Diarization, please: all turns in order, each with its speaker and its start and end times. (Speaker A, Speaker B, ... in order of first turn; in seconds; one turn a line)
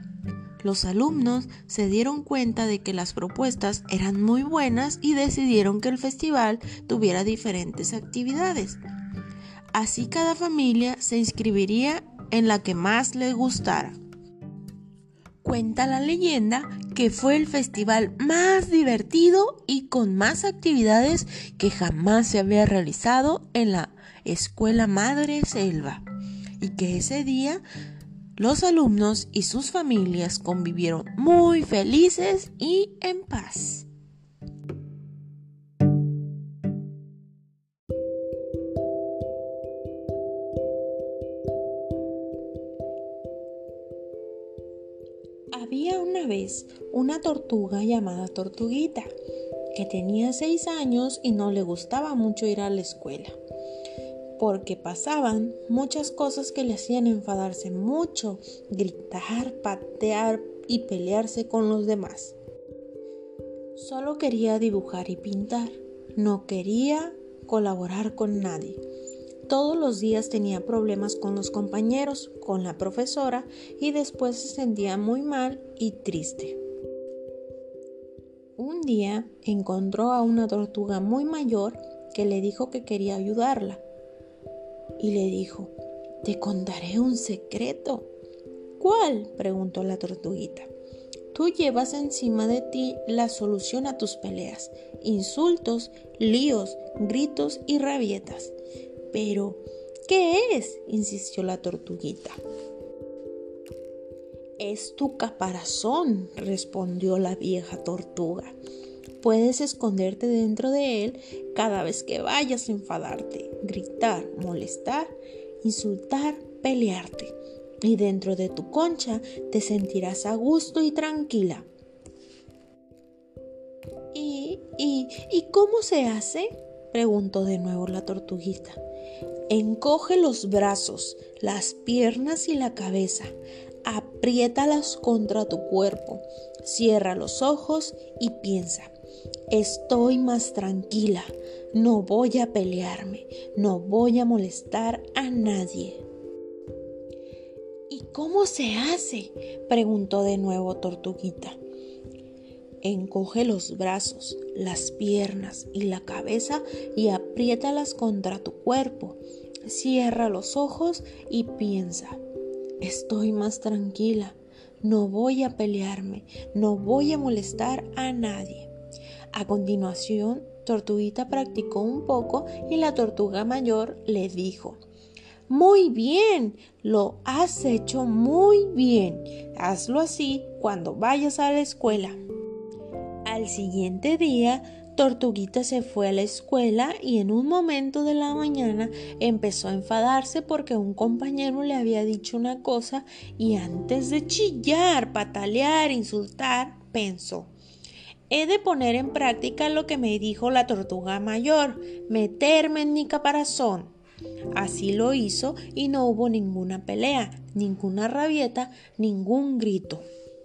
Speaker A: 0.6-8.8
Speaker A: 9.7-14.0
Speaker A: 15.4-26.0
Speaker A: 26.6-27.6
Speaker A: 28.4-33.9
Speaker A: 45.5-49.1
Speaker A: 49.7-53.4
Speaker A: 54.4-62.4
Speaker A: 63.7-68.8
Speaker A: 69.5-76.6
Speaker A: 78.6-83.8
Speaker A: 85.0-88.1
Speaker A: 88.8-90.7
Speaker A: 91.3-98.5
Speaker A: 99.1-102.4
Speaker A: 104.6-108.5
Speaker A: 109.2-121.7
Speaker A: 124.1-128.8
Speaker A: 129.5-133.3
Speaker A: 133.8-138.9
Speaker A: 139.5-146.0
Speaker A: 147.9-151.6
Speaker A: 152.8-162.2
Speaker A: 162.8-168.7
Speaker A: 169.3-174.8
Speaker A: 175.5-182.2
Speaker A: 183.2-197.5
Speaker A: 198.3-203.9
Speaker A: 204.5-210.0